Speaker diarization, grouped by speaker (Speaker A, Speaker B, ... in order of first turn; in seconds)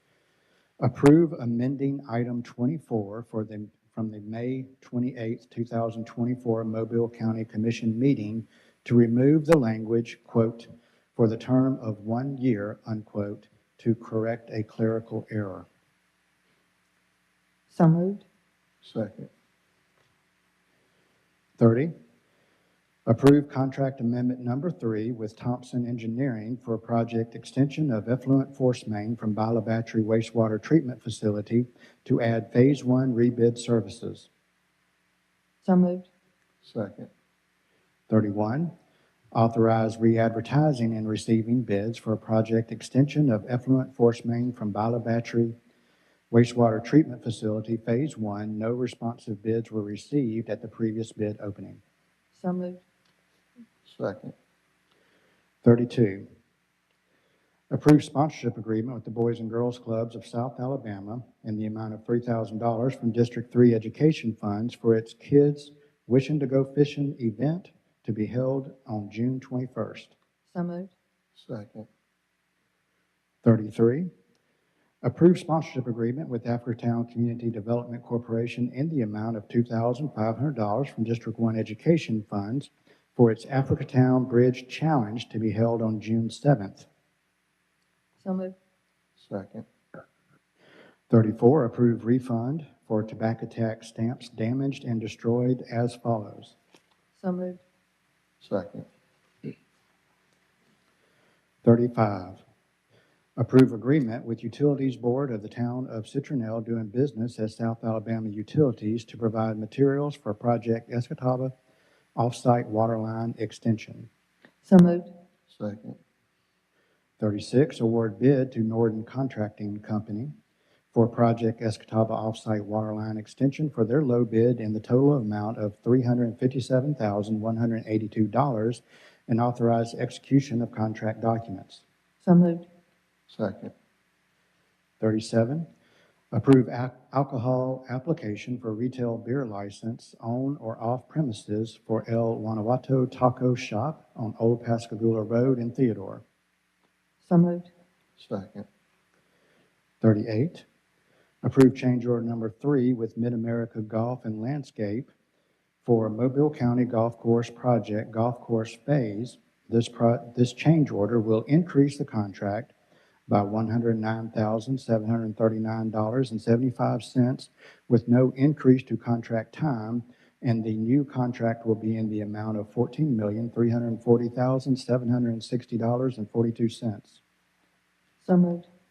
Speaker A: 0.8-15.7, 21.6-21.9, 23.1-34.3, 38.1-38.7, 39.3-45.6, 46.3-51.8, 55.6-56.2, 57.7-70.2, 73.4-74.1, 75.0-86.9, 91.1-96.6, 101.6-102.4, 103.4-111.5, 112.2-114.1, 117.2-120.3, 120.9-131.8, 135.0-135.7, 136.3-146.2, 150.0-150.7, 151.4-155.1, 155.8-162.7, 163.3-177.2
Speaker B: 17.7-18.2, 35.6-36.1, 52.3-52.8, 70.5-70.9, 88.2-88.6, 97.2-97.6, 114.7-115.1, 132.2-132.7, 147.2-147.7, 178.2-178.7
Speaker C: 18.8-19.3, 36.6-37.1, 53.8-54.3, 71.4-71.9, 89.2-89.7, 98.4-98.9, 115.5-116.0, 133.3-133.7, 148.2-148.7